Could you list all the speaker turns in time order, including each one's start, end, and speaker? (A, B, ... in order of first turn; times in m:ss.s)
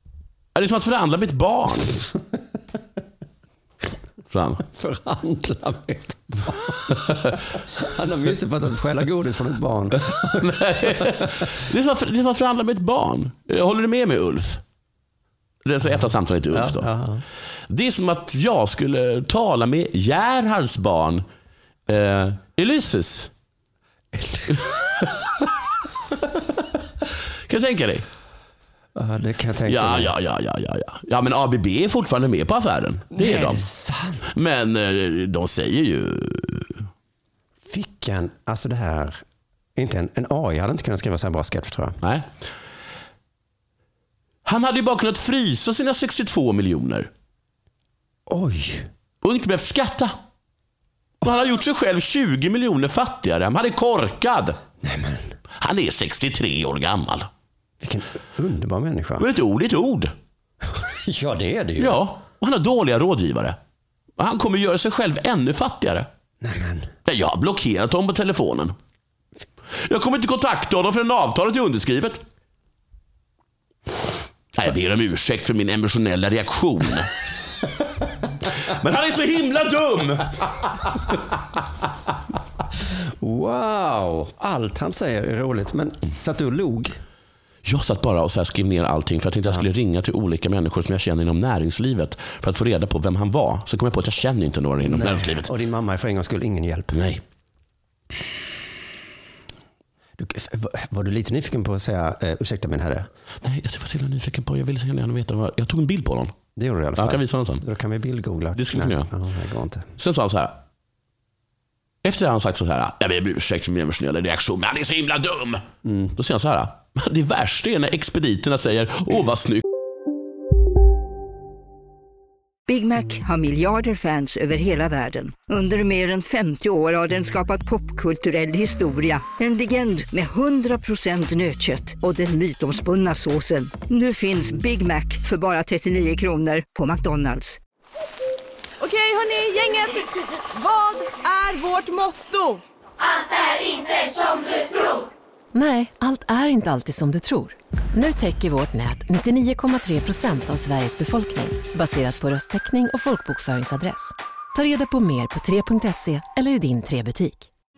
0:00.6-0:02.1 A
0:04.3-0:04.7 A
0:04.7-0:10.3 B
0:10.0-0:14.6 A
0:15.6-0:16.9 A
0:16.5-0:17.2 B
0:17.7-0:21.2 A
0:21.9-0:23.3 A
0:24.5-0:25.2 A
0:27.5-0:28.0 A
0:29.0-0:30.1 B
0:29.7-0:33.6 A
0:33.2-0:34.3 B
0:34.3-0:36.8 A
0:37.7-0:39.2 B
0:39.8-0:42.0 B
0:44.4-0:47.1 A
0:48.3-0:48.9 B
0:49.2-0:50.1 A
0:51.2-0:54.6 A
0:54.8-0:55.3 B
0:55.6-0:57.3 A
0:57.8-0:59.3 B
0:59.2-1:00.1 A
1:00.8-1:02.0 B
1:01.8-1:03.6 A
1:04.2-1:06.1 A
1:06.4-1:06.9 B
1:07.1-1:08.7 A
1:09.8-1:12.2 A
1:14.6-1:17.1 A
1:18.5-1:20.6 A
1:23.2-1:27.0 B
1:27.7-1:35.5 A
1:34.8-1:37.0 B
1:36.9-1:37.2 A
1:40.2-1:43.1 B
1:43.4-1:46.3 A
1:46.6-1:49.8 B
1:47.0-1:47.6 A
1:48.6-1:49.1 A
1:50.0-1:50.6 A
1:52.0-1:55.6 A
1:55.8-1:56.1 B
1:56.2-1:59.6 A
2:02.7-2:17.6 C
2:18.8-2:22.6 D
2:25.5-2:37.5 E